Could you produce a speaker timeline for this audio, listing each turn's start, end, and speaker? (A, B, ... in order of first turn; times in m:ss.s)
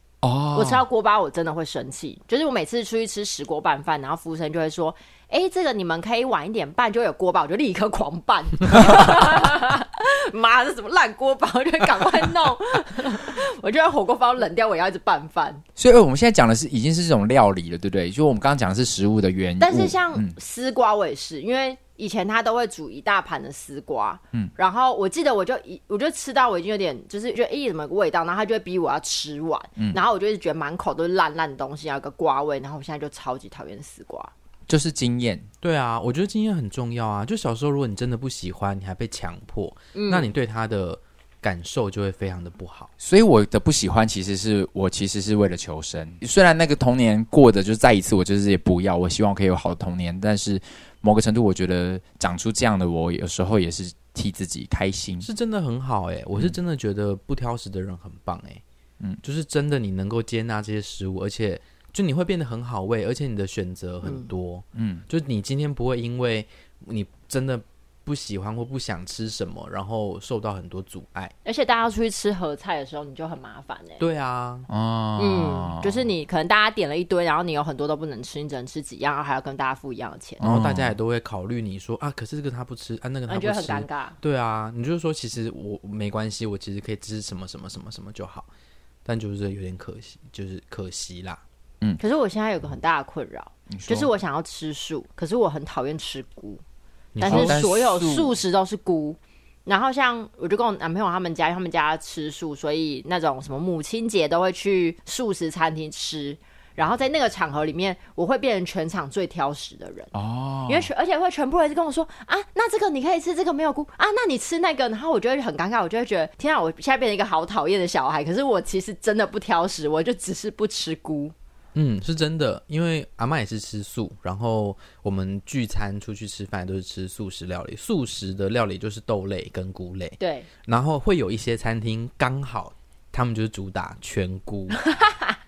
0:00.2-0:00.8 A
0:00.5-0:15.6 B
0:15.8-0:20.4 A
0:19.6-0:34.3 B
0:34.7-0:35.5 A
0:35.6-0:42.9 C
0:39.9-0:40.3 B
0:43.0-0:55.3 A
0:55.2-0:58.6 C
0:59.2-1:11.3 C
1:04.7-1:05.0 A
1:11.4-1:14.0 B
1:14.0-1:14.7 C
1:14.7-1:16.1 A
1:15.2-1:20.4 B
1:20.4-1:21.0 A
1:20.4-1:28.5 C
1:23.3-1:24.2 B
1:29.0-1:31.4 C
1:32.0-1:36.6 B
1:33.7-1:34.1 A
1:37.1-1:37.6 C
1:37.2-1:50.1 B
1:37.3-1:38.4 A
1:50.1-1:50.9 A
1:50.7-2:01.3 B
2:01.7-2:14.8 C
2:10.2-2:10.5 B
2:14.8-2:15.4 B